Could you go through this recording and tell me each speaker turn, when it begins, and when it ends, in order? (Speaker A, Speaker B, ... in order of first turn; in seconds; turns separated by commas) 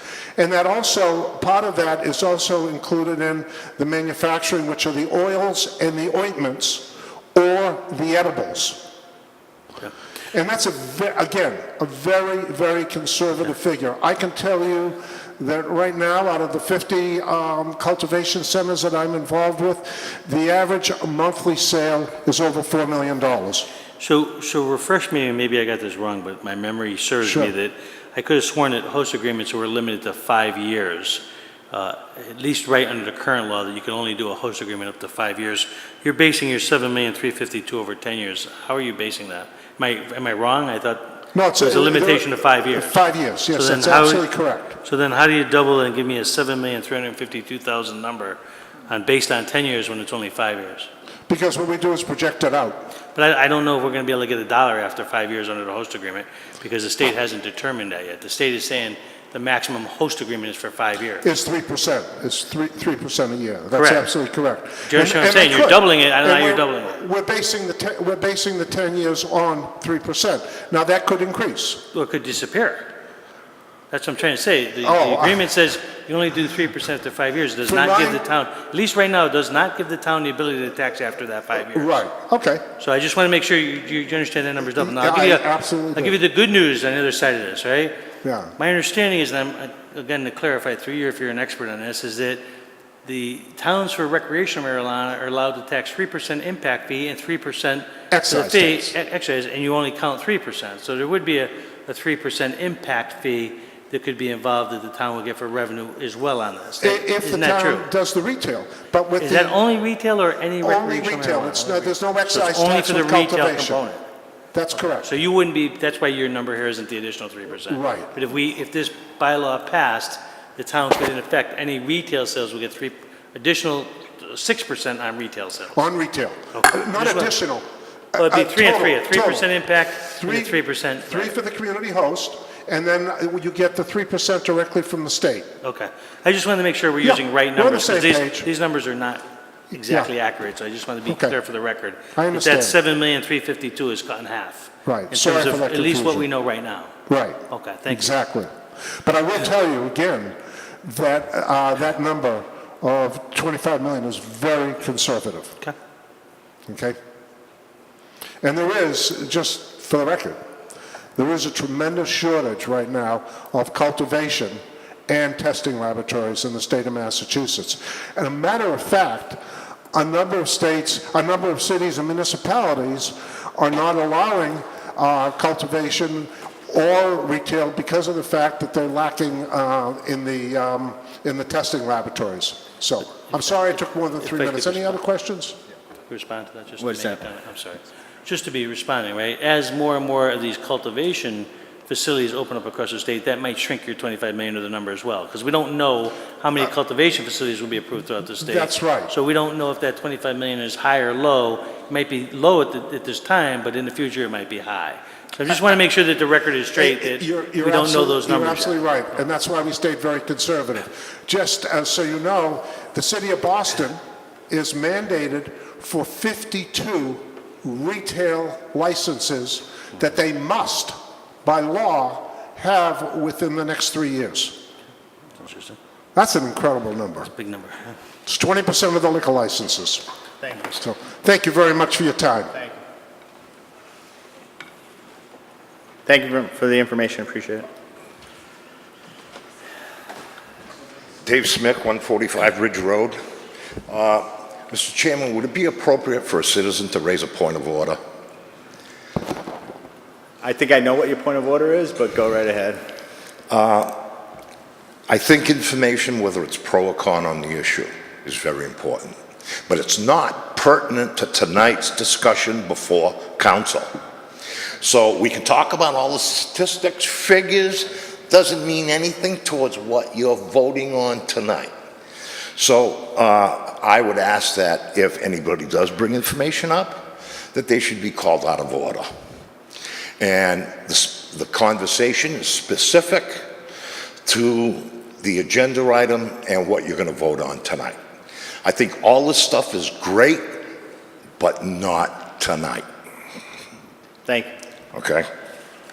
Speaker A: 0.4-8.9, Speaker A: 10.3-23.7, Speaker B: 24.0-41.0, Speaker A: 27.2-27.5, Speaker A: 41.3-44.8, Speaker B: 41.6-43.0, Speaker B: 43.5-50.9, Speaker A: 51.3-52.9, Speaker B: 53.1-61.2, Speaker A: 61.2-71.9, Speaker B: 63.7-64.1, Speaker B: 64.8-67.0, Speaker B: 71.9-72.9, Speaker B: 73.9-82.0, Speaker A: 74.8-75.5, Speaker A: 77.7-78.2, Speaker A: 81.7-82.6, Speaker B: 82.8-88.0, Speaker A: 84.8-86.1, Speaker A: 88.2-88.5, Speaker B: 88.6-92.4, Speaker B: 93.0-107.9, Speaker A: 98.1-98.9, Speaker A: 106.8-109.6, Speaker B: 109.2-114.0, Speaker A: 110.6-113.8, Speaker A: 114.5-115.1, Speaker B: 114.9-125.8, Speaker A: 117.7-118.1, Speaker A: 125.7-135.5, Speaker B: 126.5-127.3, Speaker B: 128.2-131.3, Speaker B: 135.6-146.9, Speaker A: 137.0-138.5, Speaker A: 141.1-141.3, Speaker A: 142.1-142.8, Speaker A: 144.8-146.3, Speaker A: 147.1-155.6, Speaker B: 147.5-148.2, Speaker A: 156.7-157.0, Speaker A: 158.4-160.4, Speaker A: 161.2-169.4, Speaker A: 169.9-185.6, Speaker B: 183.4-185.0, Speaker B: 186.1-208.8, Speaker C: 186.8-187.2, Speaker A: 198.4-199.2, Speaker A: 206.8-224.6, Speaker B: 225.4-225.8, Speaker A: 226.1-227.3, Speaker B: 227.2-228.0, Speaker A: 228.2-230.0, Speaker A: 230.6-232.5, Speaker C: 236.1-237.7, Speaker D: 241.2-243.2, Speaker D: 243.9-248.0, Speaker C: 250.4-252.8, Speaker D: 253.5-254.0, Speaker D: 255.1-263.9, Speaker D: 264.8-271.7, Speaker D: 272.6-279.1, Speaker D: 280.2-283.5, Speaker D: 284.2-287.9, Speaker D: 288.6-290.6, Speaker D: 291.4-292.8, Speaker C: 294.2-294.5, Speaker D: 294.9-295.3